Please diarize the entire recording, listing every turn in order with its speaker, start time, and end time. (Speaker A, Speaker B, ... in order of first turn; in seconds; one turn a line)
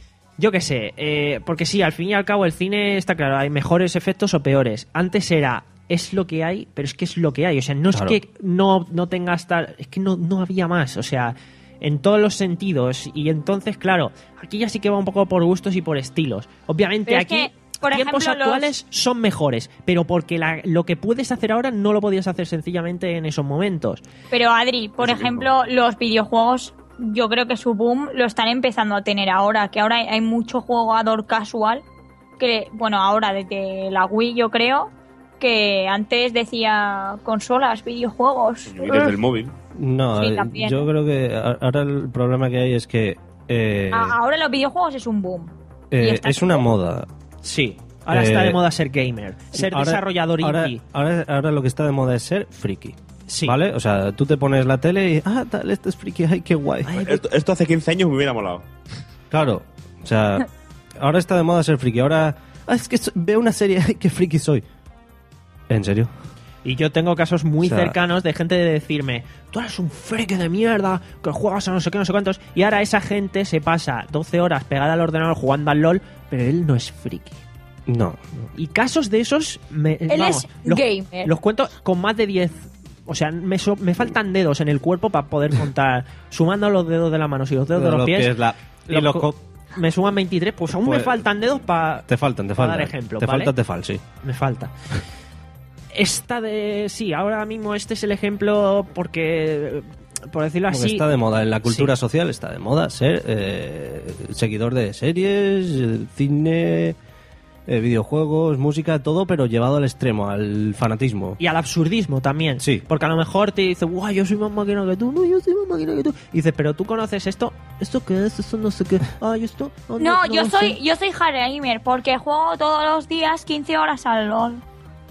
Speaker A: 0.4-24.0
Speaker B: 7.9-8.2
Speaker C: 17.1-18.7
Speaker C: 24.3-31.8
Speaker D: 25.0-25.4
Speaker C: 32.4-39.2
Speaker D: 38.6-39.5
Speaker B: 39.7-44.2
Speaker C: 40.1-40.9
Speaker C: 43.9-46.7
Speaker B: 45.9-47.1
Speaker A: 47.4-50.8
Speaker B: 48.1-48.6
Speaker B: 49.5-57.0
Speaker A: 53.3-53.6
Speaker A: 56.8-57.2
Speaker D: 57.0-58.6
Speaker B: 59.3-64.6
Speaker B: 65.7-66.1
Speaker A: 66.6-77.4
Speaker B: 67.6-67.9
Speaker B: 77.9-78.5
Speaker A: 78.5-88.3
Speaker C: 80.1-81.3
Speaker B: 87.7-89.4
Speaker A: 88.9-92.0
Speaker B: 90.8-91.2
Speaker B: 92.1-94.0
Speaker A: 92.6-93.5
Speaker A: 94.2-94.7
Speaker A: 95.9-101.1
Speaker B: 100.7-107.0
Speaker A: 101.6-101.9
Speaker B: 107.7-111.4
Speaker A: 111.4-120.8
Speaker C: 120.0-124.6